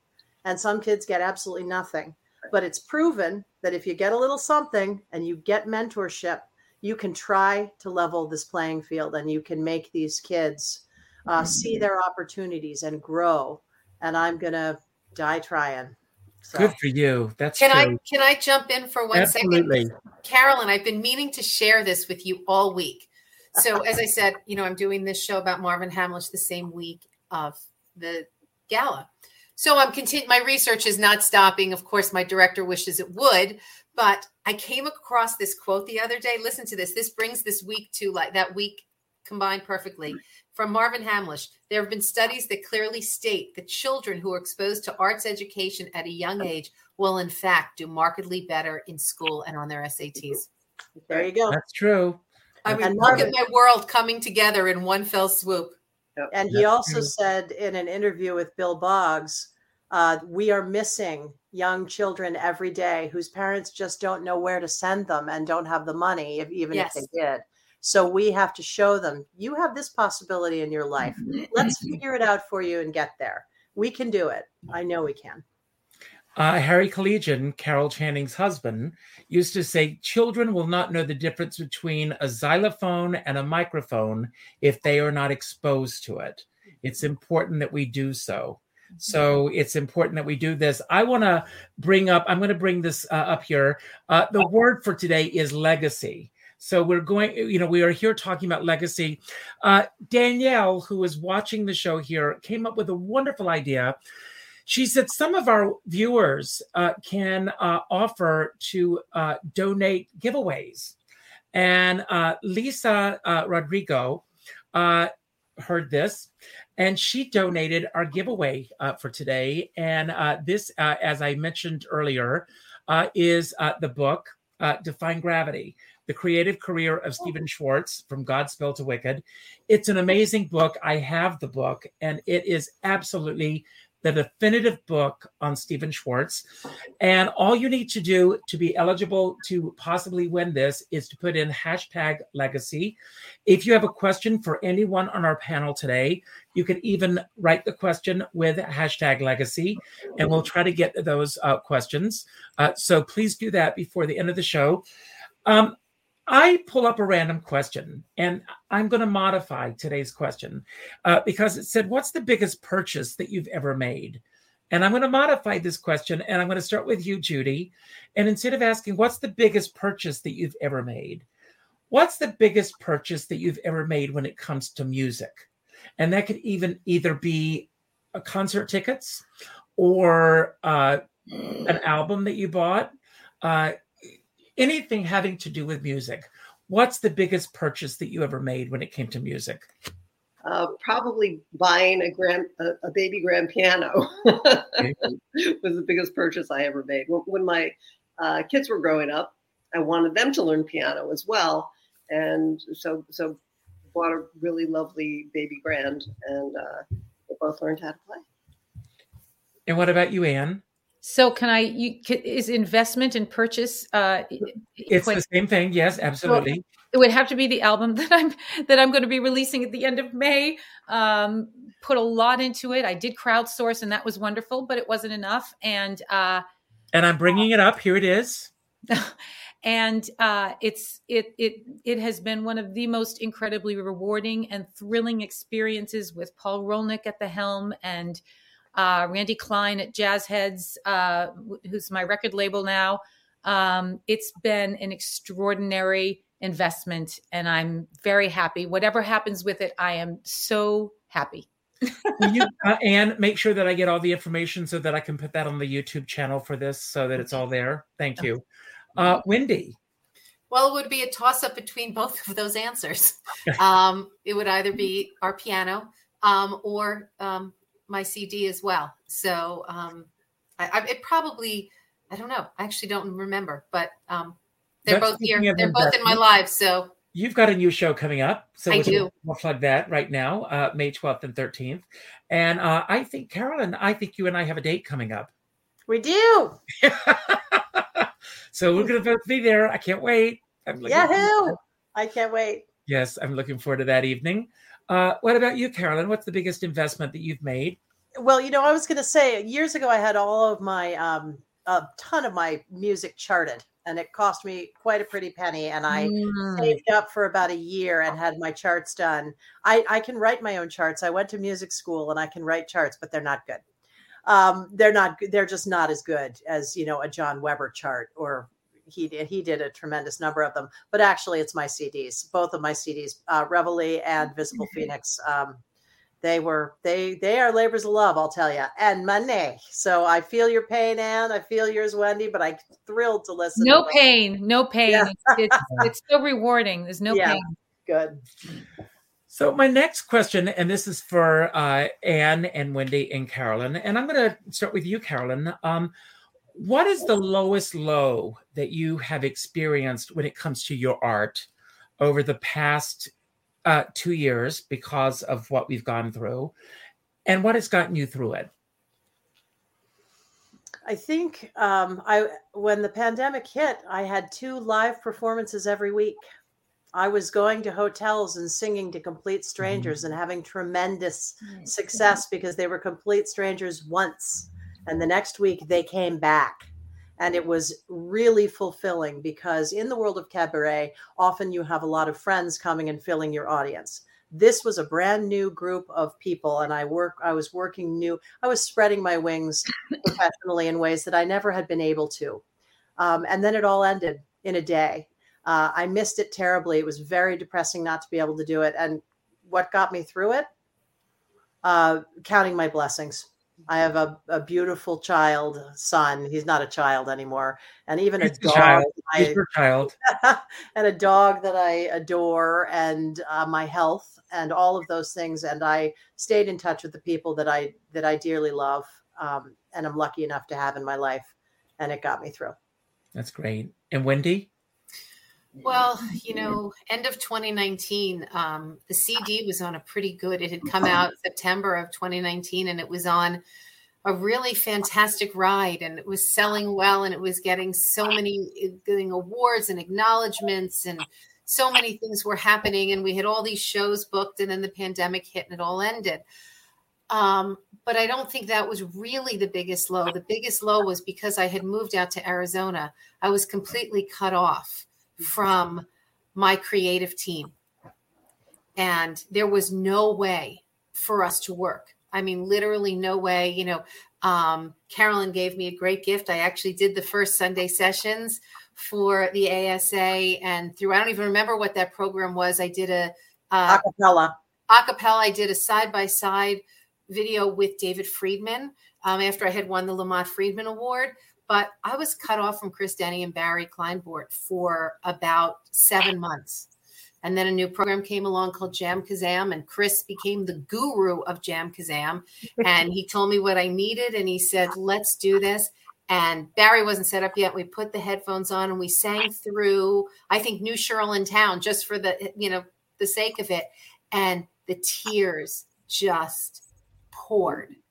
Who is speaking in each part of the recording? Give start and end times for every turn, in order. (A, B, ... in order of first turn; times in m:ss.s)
0:00.4-0:16.8 A
0:16.6-0:18.0 B
0:17.6-0:50.5 C
0:19.1-0:19.9 B
0:51.1-0:51.6 A
0:51.5-0:53.3 B
0:52.6-0:55.8 C
0:52.8-0:53.3 A
0:56.3-1:15.4 A
0:56.5-0:57.1 B
1:06.7-1:07.0 C
1:16.4-1:44.0 B
1:44.7-1:51.0 B
1:51.5-2:16.4 B
2:17.0-2:34.8 B
2:35.4-2:35.8 B
2:36.3-2:51.3 B
2:51.9-2:55.5 B
2:56.0-2:59.2 B
2:59.8-3:01.0 B
3:01.6-3:02.9 B
3:03.4-3:09.7 B
3:10.4-3:23.4 D
3:14.8-3:15.1 B
3:23.9-3:28.2 D
3:29.7-3:30.6 B
3:31.0-3:35.2 E
3:34.9-3:36.6 B
3:36.2-3:46.4 E
3:46.9-3:48.5 B
3:48.9-3:58.2 E
3:58.8-4:12.4 E
4:12.2-4:18.4 B
4:19.0-4:19.8 B
4:20.5-4:36.9 C
4:34.9-4:36.2 B
4:37.1-4:45.3 B
4:38.7-4:39.1 C
4:45.9-4:46.6 A
4:46.8-4:51.6 B
4:50.8-4:52.6 A
4:52.9-4:57.8 B
4:58.2-5:13.6 A
5:05.9-5:06.8 E
5:14.2-5:25.6 A
5:26.2-5:34.0 A
5:33.6-5:37.5 E
5:34.9-5:35.6 A
5:37.1-5:38.2 A
5:39.3-5:45.9 B
5:46.5-5:51.5 B
5:52.0-5:53.1 B
5:53.6-5:56.5 B
5:57.3-5:58.5 B
6:00.8-6:06.2 A
6:06.9-6:32.4 A
6:33.0-6:40.5 A
6:41.6-6:49.4 A
6:48.2-6:50.0 B
6:50.0-7:02.6 A
7:03.2-7:04.5 B
7:05.6-7:13.4 C
7:14.0-7:26.2 C
7:27.1-7:37.5 C
7:38.8-7:53.8 C
7:53.7-7:54.3 A
7:54.7-8:06.7 C
8:07.2-8:27.8 C